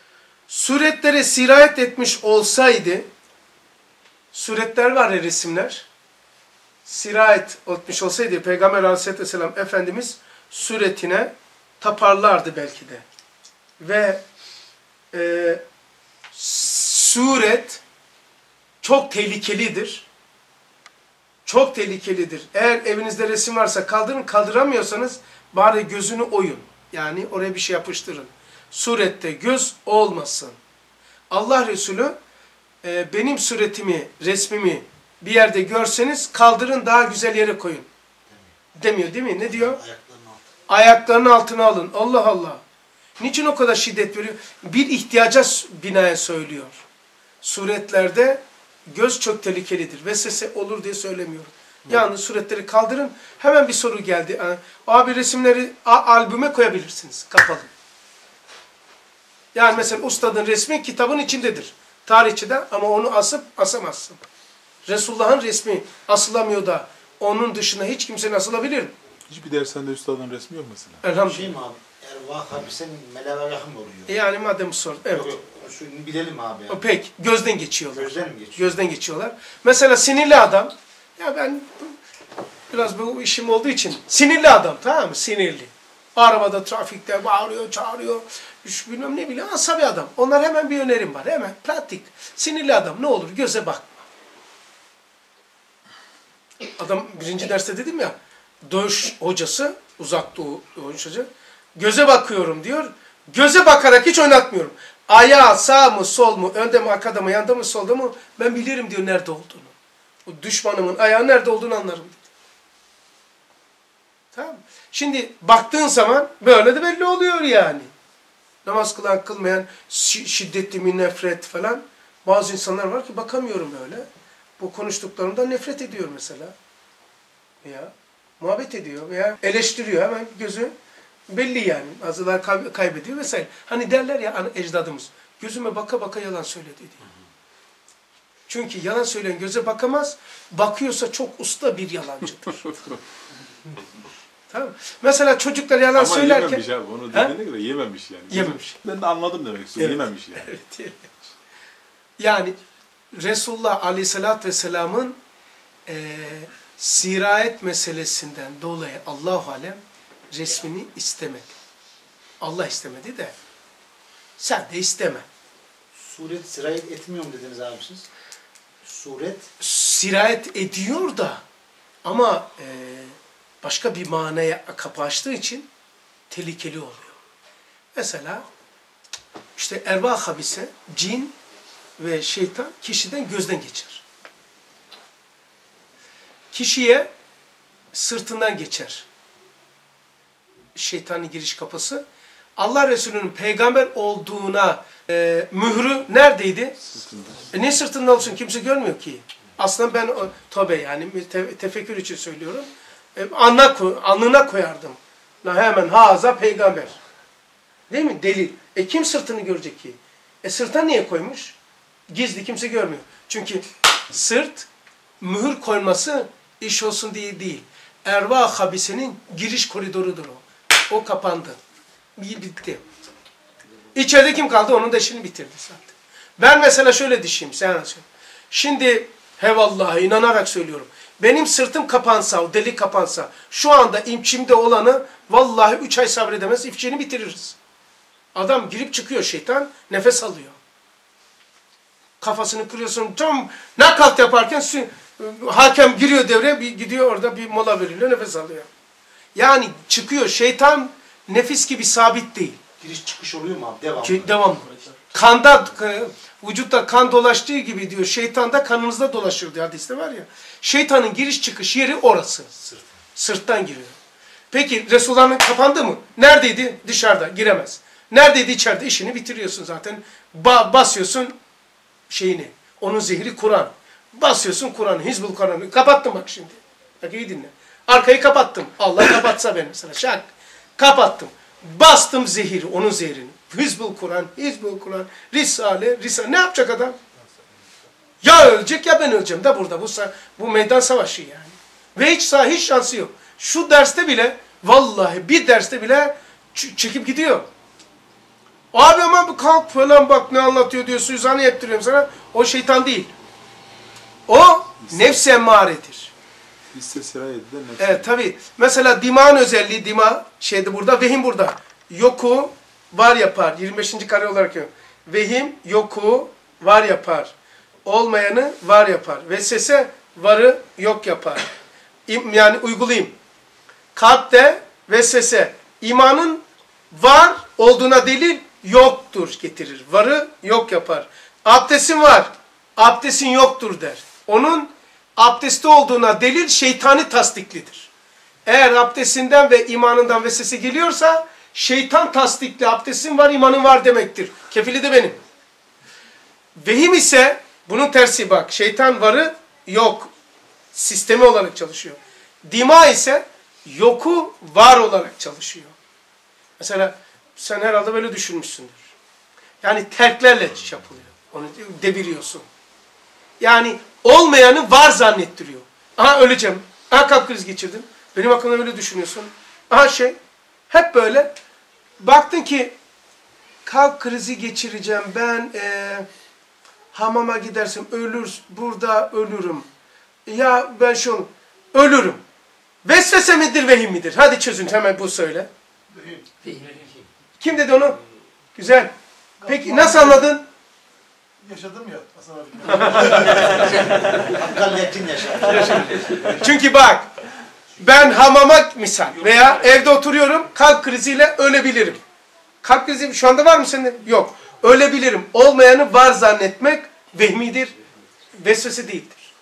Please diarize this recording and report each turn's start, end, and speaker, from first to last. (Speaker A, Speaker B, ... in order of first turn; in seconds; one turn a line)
Speaker A: 0.5-3.1
Speaker A: 4.3-5.9
Speaker A: 6.8-13.0
Speaker A: 13.8-14.2
Speaker A: 15.1-15.6
Speaker A: 16.3-17.8
Speaker A: 18.8-20.1
Speaker A: 21.4-30.6
Speaker A: 31.3-32.1
Speaker A: 32.8-37.9
Speaker A: 38.8-39.8
Speaker B: 39.5-40.5
Speaker A: 40.7-42.6
Speaker A: 43.2-46.8
Speaker A: 47.4-57.7
Speaker A: 59.5-64.2
Speaker A: 64.8-68.9
Speaker C: 69.3-71.0
Speaker A: 71.0-71.5
Speaker B: 71.2-74.2
Speaker A: 74.1-75.3
Speaker B: 75.1-76.8
Speaker A: 76.7-82.0
Speaker B: 77.9-78.8
Speaker A: 82.7-93.9
Speaker A: 96.7-109.7
Speaker A: 110.2-112.3
Speaker A: 114.3-117.9
Speaker A: 118.6-124.0
Speaker A: 124.6-126.5
Speaker A: 127.6-130.7
Speaker A: 131.3-137.0
Speaker A: 138.5-142.8
Speaker A: 144.5-147.3
Speaker C: 145.9-150.5
Speaker A: 148.3-148.8
Speaker A: 149.8-151.1
Speaker A: 152.2-152.6
Speaker A: 153.1-155.2
Speaker A: 155.9-161.6
Speaker A: 162.4-163.3
Speaker A: 164.4-165.2
Speaker B: 165.9-168.1
Speaker B: 168.8-169.5
Speaker A: 169.6-171.4
Speaker A: 172.0-175.7
Speaker A: 176.3-177.2
Speaker A: 177.9-178.4
Speaker A: 179.5-181.3
Speaker A: 182.0-184.0
Speaker A: 186.5-187.1
Speaker A: 187.9-189.1
Speaker A: 190.7-192.0
Speaker A: 192.6-196.8
Speaker C: 196.8-197.5
Speaker A: 197.5-206.9
Speaker A: 207.9-211.6
Speaker A: 212.1-214.7
Speaker A: 215.2-221.6
Speaker A: 222.2-222.8
Speaker A: 223.9-237.6
Speaker A: 238.3-240.6
Speaker A: 242.2-248.7
Speaker A: 249.3-252.6
Speaker B: 252.8-254.3
Speaker A: 254.0-262.6
Speaker A: 263.1-263.9
Speaker A: 264.5-271.4
Speaker A: 272.1-287.0
Speaker A: 288.2-297.4
Speaker A: 298.7-303.1
Speaker A: 304.3-306.1
Speaker C: 304.9-305.2
Speaker C: 306.7-308.1
Speaker A: 307.8-317.3
Speaker A: 317.8-321.5
Speaker A: 322.1-323.1
Speaker A: 323.9-337.9
Speaker A: 338.4-345.2
Speaker A: 346.6-350.1
Speaker A: 350.7-355.7
Speaker A: 356.6-358.9
Speaker A: 359.6-362.4
Speaker A: 363.4-370.2
Speaker A: 370.7-371.3
Speaker A: 372.0-372.7
Speaker A: 373.6-376.1
Speaker A: 376.9-379.7
Speaker A: 380.2-382.2
Speaker A: 382.8-385.5
Speaker B: 385.9-387.0
Speaker A: 387.4-388.0
Speaker A: 388.6-388.9
Speaker A: 389.4-390.4
Speaker C: 389.6-390.0
Speaker C: 391.4-394.1
Speaker A: 392.6-393.8
Speaker B: 393.4-396.2
Speaker A: 395.4-397.1
Speaker A: 397.8-402.0
Speaker A: 402.6-407.7
Speaker A: 408.3-409.3